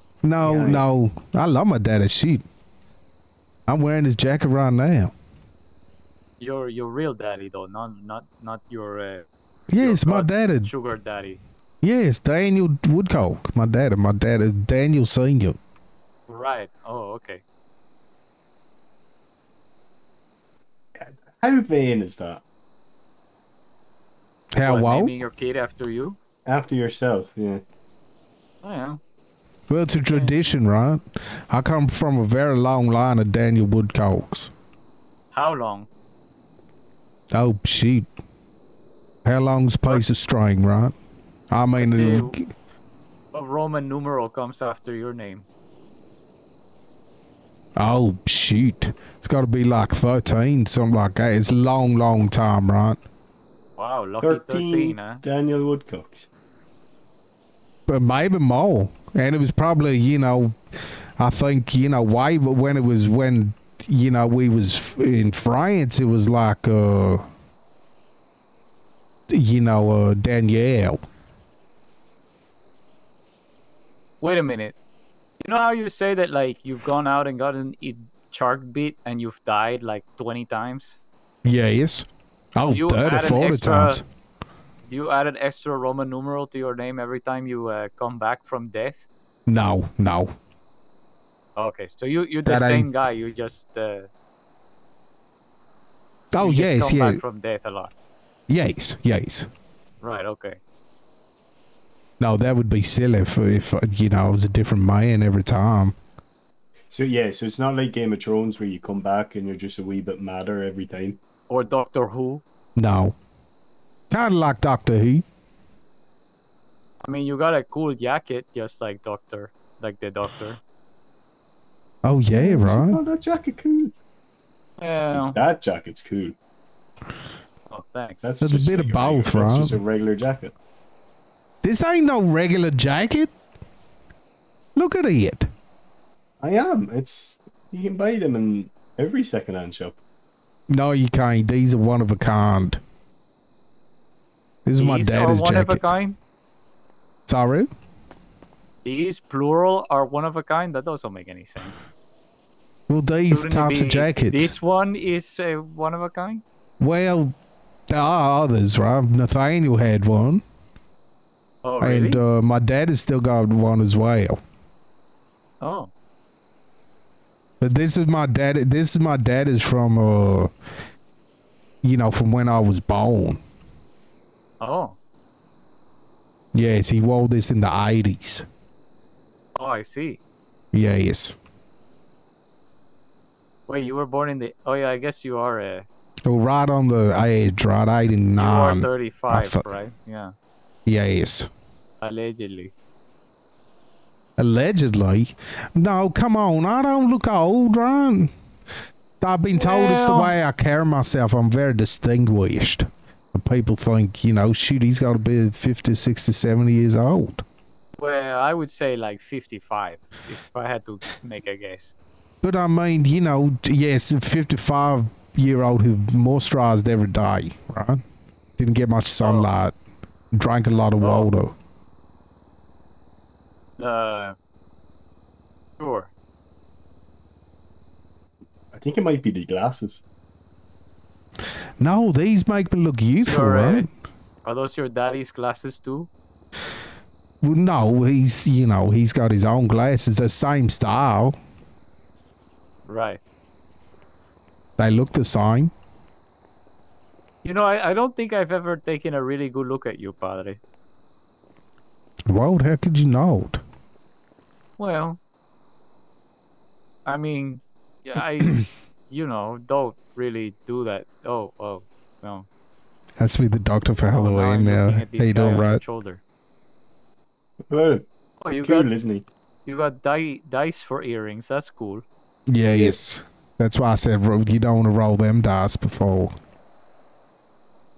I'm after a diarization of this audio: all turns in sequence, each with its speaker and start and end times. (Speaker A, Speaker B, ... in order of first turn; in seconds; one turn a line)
Speaker A: 0.2-2.4
Speaker B: 0.4-0.8
Speaker A: 3.7-5.1
Speaker C: 6.4-9.3
Speaker A: 9.7-10.7
Speaker C: 9.8-11.4
Speaker A: 11.8-15.6
Speaker C: 16.3-17.4
Speaker B: 21.0-22.4
Speaker A: 24.5-25.1
Speaker C: 24.6-26.2
Speaker B: 26.5-27.6
Speaker C: 28.6-29.0
Speaker A: 29.7-34.5
Speaker C: 30.1-30.4
Speaker C: 35.3-35.9
Speaker A: 37.3-38.1
Speaker A: 39.2-40.9
Speaker A: 41.5-42.4
Speaker C: 41.8-42.4
Speaker C: 43.3-45.5
Speaker A: 47.8-53.0
Speaker C: 53.8-55.2
Speaker B: 54.2-56.3
Speaker A: 57.9-60.6
Speaker A: 61.2-67.2
Speaker A: 69.3-71.0
Speaker C: 74.2-74.7
Speaker C: 75.4-81.0
Speaker A: 81.4-84.0
Speaker C: 82.7-84.0
Speaker C: 84.8-89.0
Speaker A: 89.5-90.3
Speaker C: 91.5-94.1
Speaker A: 92.5-92.9
Speaker A: 96.3-97.2
Speaker C: 96.4-97.9
Speaker A: 98.5-99.5
Speaker C: 100.0-100.6
Speaker A: 102.2-105.9
Speaker B: 106.9-111.2
Speaker C: 111.5-112.4
Speaker A: 112.8-113.2
Speaker A: 114.1-115.2
Speaker C: 117.0-120.6
Speaker A: 122.0-123.0
Speaker B: 122.3-123.9
Speaker C: 124.8-125.4
Speaker B: 125.1-126.3
Speaker C: 127.7-128.3
Speaker B: 128.2-130.5
Speaker A: 128.4-129.8
Speaker A: 131.6-133.3
Speaker A: 134.8-135.5
Speaker B: 136.4-140.0
Speaker A: 140.7-142.8
Speaker A: 144.7-145.9
Speaker C: 144.8-146.2
Speaker A: 147.3-147.7
Speaker C: 148.8-151.8
Speaker A: 152.9-154.5
Speaker C: 153.3-156.4
Speaker A: 156.8-157.3
Speaker A: 157.9-160.4
Speaker C: 161.6-162.2
Speaker A: 161.8-164.4
Speaker C: 165.6-165.9
Speaker A: 167.6-170.5
Speaker A: 171.8-173.4
Speaker C: 174.6-175.0
Speaker A: 176.5-178.4
Speaker C: 179.5-180.2
Speaker A: 180.7-181.3
Speaker C: 183.7-185.8
Speaker A: 186.3-189.7
Speaker C: 188.4-190.3
Speaker A: 190.8-191.5
Speaker C: 192.0-192.7
Speaker A: 194.4-198.3
Speaker A: 199.2-207.4
Speaker C: 199.5-200.3
Speaker C: 208.0-211.9
Speaker A: 212.4-218.0
Speaker A: 218.6-219.8
Speaker C: 219.2-219.5
Speaker A: 220.3-221.5
Speaker C: 221.0-221.3
Speaker C: 223.8-224.3
Speaker C: 225.8-226.1
Speaker B: 228.7-230.0
Speaker A: 231.8-233.8
Speaker C: 233.2-233.9
Speaker C: 234.4-236.1
Speaker A: 237.4-241.3
Speaker C: 242.8-243.2
Speaker A: 244.8-245.7
Speaker C: 247.4-250.6
Speaker A: 252.3-253.6
Speaker C: 254.8-255.2
Speaker C: 257.1-262.5
Speaker A: 263.2-265.8
Speaker C: 264.0-266.2
Speaker B: 267.7-268.1
Speaker C: 268.4-268.9
Speaker B: 268.6-269.2
Speaker C: 269.7-272.0
Speaker A: 272.5-276.3